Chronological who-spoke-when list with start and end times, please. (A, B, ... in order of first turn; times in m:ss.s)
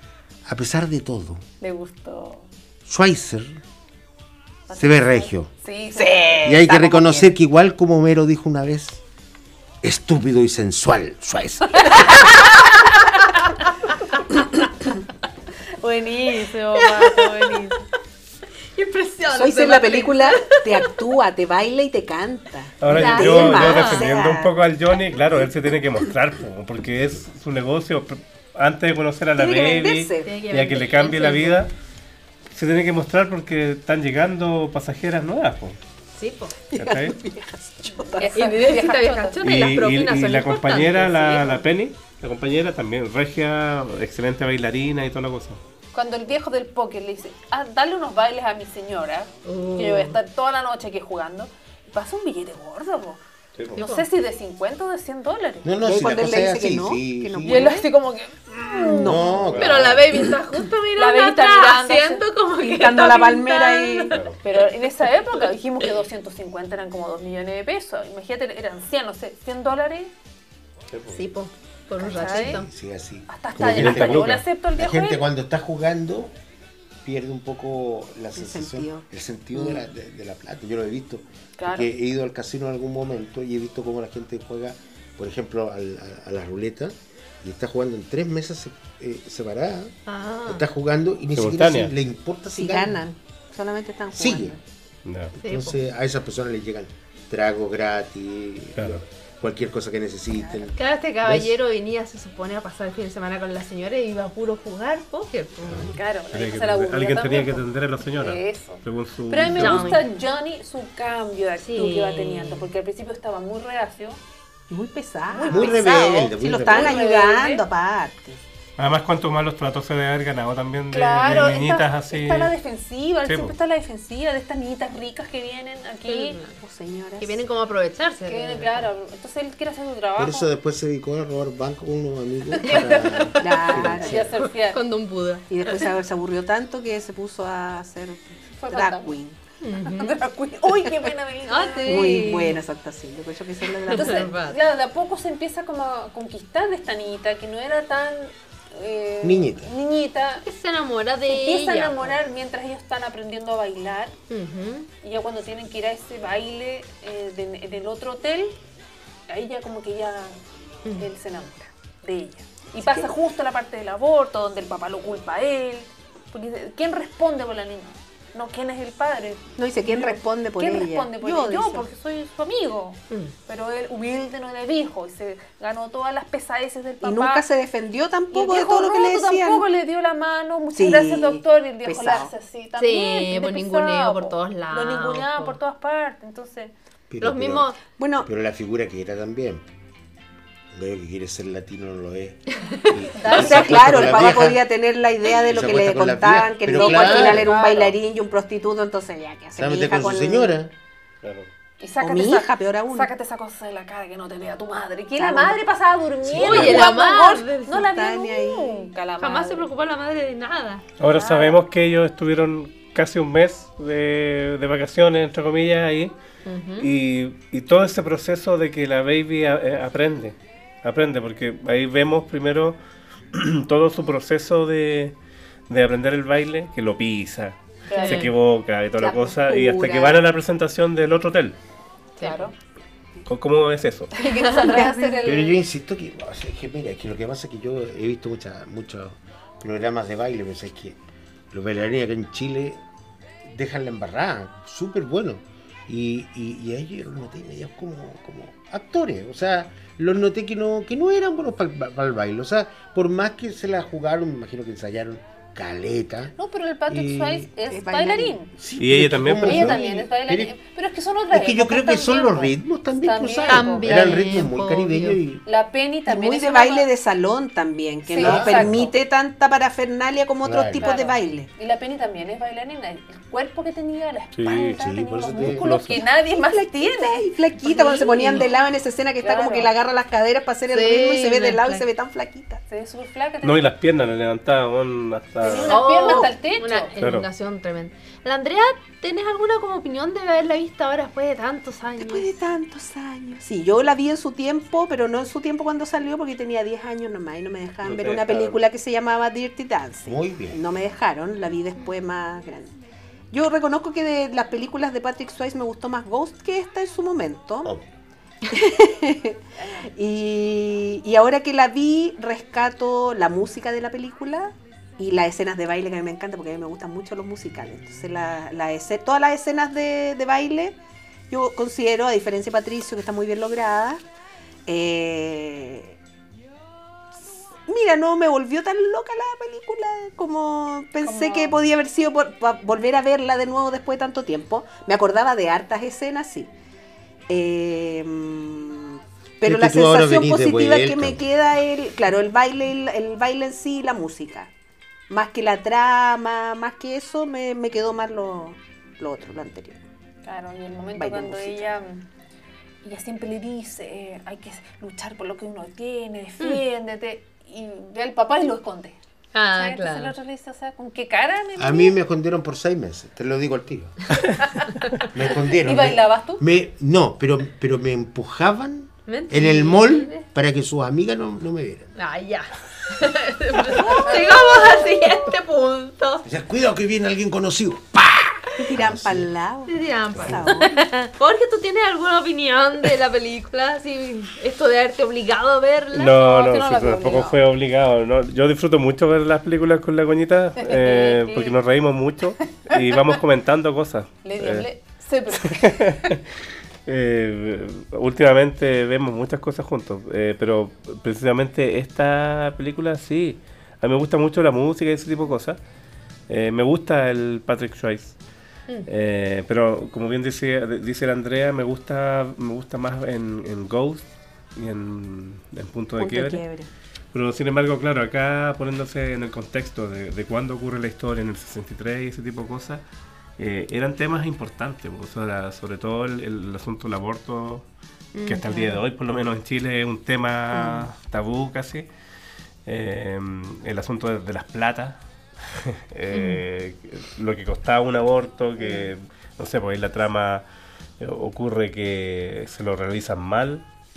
0:00.5-0:01.4 A
0:01.6-0:02.5 B
0:02.9-0:03.6 A
0:04.7-0:06.2 B
0:04.8-0:05.5 A
0:05.9-0:07.4 C
0:06.4-0:09.0 A
0:09.8-0:12.1 A
0:11.8-0:12.4 B
0:12.1-0:13.6 D
0:15.8-0:17.8 B
0:16.3-0:17.8 D
0:18.8-0:21.0 D
0:19.3-0:24.5 C
0:22.8-0:31.7 E
0:22.9-0:24.1 D
0:29.4-0:30.3 C
0:30.2-0:31.7 D
0:32.5-0:35.8 E
0:36.2-0:36.6 D
0:36.7-0:38.4 C
0:36.8-0:37.2 E
0:38.0-0:39.4 B
0:38.2-0:41.6 D
0:39.4-0:45.6 E
0:45.9-0:55.7 B
0:49.4-0:50.2 D
0:53.6-0:53.8 E
0:53.8-0:54.1 D
0:55.6-0:57.8 A
0:55.8-0:57.9 C
0:57.4-0:59.2 B
0:58.7-0:59.4 C
0:58.8-1:00.1 A
0:59.4-0:59.9 E
0:59.6-1:04.3 D
1:01.0-1:02.3 B
1:02.6-1:04.2 C
1:04.1-1:04.4 E
1:04.4-1:10.1 B
1:10.9-1:11.2 E
1:11.1-1:12.7 D
1:12.0-1:12.3 C
1:12.1-1:12.6 B
1:12.3-1:16.3 A
1:13.3-1:15.2 B
1:13.6-1:14.4 E
1:17.0-1:33.0 A
1:18.4-1:19.8 C
1:21.6-1:21.9 B
1:30.1-1:30.6 D
1:31.4-1:31.9 E
1:32.5-1:34.6 C
1:34.1-1:34.6 A
1:35.0-1:35.3 E
1:35.3-1:41.6 A
1:35.4-1:35.8 D
1:38.8-1:39.0 E
1:40.3-1:40.7 C
1:40.8-1:46.0 D
1:45.8-1:54.2 B
1:46.3-1:50.0 E
1:49.6-1:50.0 D
1:51.6-1:52.7 D
1:54.7-1:58.4 C
1:55.3-1:56.0 B
1:55.5-1:57.0 A
1:56.6-1:57.6 B
1:58.8-2:02.5 E
2:00.9-2:06.4 B
2:03.2-2:03.6 E
2:06.1-2:06.6 D
2:06.6-2:07.4 C
2:07.2-2:08.9 D
2:08.3-2:10.5 B
2:10.2-2:14.3 A
2:12.6-2:14.8 B
2:12.6-2:13.7 D
2:13.4-2:14.3 C
2:14.4-2:15.5 D
2:15.5-2:19.4 C
2:18.6-2:19.2 B
2:19.6-2:20.2 D
2:19.9-2:22.2 B
2:21.5-2:22.6 D
2:21.9-2:24.3 C
2:23.8-2:24.6 D
2:23.9-2:30.4 B
2:29.2-2:29.7 A
2:30.4-2:32.2 D
2:31.2-2:34.2 B
2:34.3-2:34.9 D
2:35.0-2:38.6 B
2:39.3-2:40.4 B
2:41.0-2:57.4 B
2:42.8-2:43.1 C
2:49.6-2:51.9 C
2:57.0-2:59.6 C
2:58.3-3:06.7 B
3:00.8-3:02.3 C
3:02.8-3:05.6 D
3:07.1-3:07.7 A
3:07.2-3:07.8 D
3:08.0-3:08.3 C
3:08.2-3:09.6 A
3:10.7-3:14.6 A
3:12.6-3:13.6 D
3:13.2-3:14.1 B
3:13.3-3:20.5 C
3:15.2-3:17.6 A
3:16.8-3:18.0 B
3:19.6-3:20.7 A
3:21.2-3:21.5 E
3:21.8-3:29.7 B
3:22.0-3:23.1 C
3:25.2-3:25.6 C
3:26.3-3:26.9 E
3:26.3-3:27.9 D
3:27.8-3:28.9 C
3:29.2-3:30.8 D
3:31.0-3:36.1 E
3:31.1-3:31.6 B
3:36.4-3:36.9 D
3:36.8-3:42.8 E
3:43.3-3:45.2 E
3:45.7-3:51.6 E
3:47.9-3:48.3 B
3:47.9-3:48.3 D
3:49.0-3:50.2 C
3:52.2-3:52.5 D
3:52.2-3:52.5 B
3:53.3-3:54.1 E
3:54.1-3:55.6 B
3:54.2-3:55.2 D
3:54.6-3:54.9 C
3:55.2-4:01.0 A
4:01.5-4:02.8 A
4:03.4-4:16.3 A
4:16.4-4:18.5 B
4:16.9-4:17.5 A
4:17.7-4:18.4 C
4:18.6-4:20.5 A
4:18.8-4:19.8 E
4:19.4-4:24.1 B
4:21.3-4:25.4 A
4:23.5-4:25.2 D
4:25.5-4:26.9 B
4:26.1-4:31.5 C
4:28.1-4:28.9 B
4:28.2-4:28.9 A
4:30.4-4:30.9 A
4:30.8-4:38.6 B
4:34.3-4:34.8 E
4:34.7-4:35.7 A
4:35.4-4:36.0 E
4:36.5-4:42.6 C
4:38.0-4:38.4 D
4:39.2-4:39.7 B
4:40.7-4:41.9 D
4:42.7-4:43.7 B
4:43.4-4:45.8 E
4:45.4-4:47.0 B
4:45.4-4:46.3 C
4:45.6-4:52.4 D
4:47.0-4:47.3 E
4:52.0-5:02.8 C
4:57.8-4:58.6 E
5:00.0-5:00.6 A
5:03.3-5:07.7 C
5:08.5-5:20.8 C
5:21.3-5:24.0 C
5:24.7-5:26.0 C
5:27.3-5:36.5 C
5:31.0-5:31.6 B
5:37.3-5:44.5 C
5:39.4-5:41.2 A
5:45.1-5:49.8 C
5:50.2-5:52.1 B
5:51.0-5:51.7 C
5:52.8-5:59.0 B
5:59.3-6:00.2 D
5:59.5-6:02.0 B
6:01.6-6:04.2 A
6:05.1-6:11.9 A
6:05.4-6:06.4 B
6:09.1-6:10.2 D
6:12.0-6:16.3 D
6:13.9-6:14.2 B
6:16.2-6:19.3 A
6:18.6-6:20.9 C
6:19.7-6:26.2 D
6:20.2-6:20.4 A
6:25.9-6:34.7 E
6:26.1-6:27.4 B
6:30.6-6:31.5 B
6:32.5-6:33.0 B
6:34.2-6:36.1 B
6:35.3-6:36.3 E
6:36.9-6:45.6 E
6:46.3-6:48.2 E
6:48.9-6:56.4 E
6:56.0-6:56.7 C
6:57.1-7:02.8 E
7:03.4-7:07.7 E
7:08.2-7:08.8 D
7:08.3-7:11.9 E
7:10.6-7:10.8 C
7:12.7-7:15.0 E
7:15.5-7:20.4 E
7:16.1-7:16.4 D
7:21.0-7:23.6 E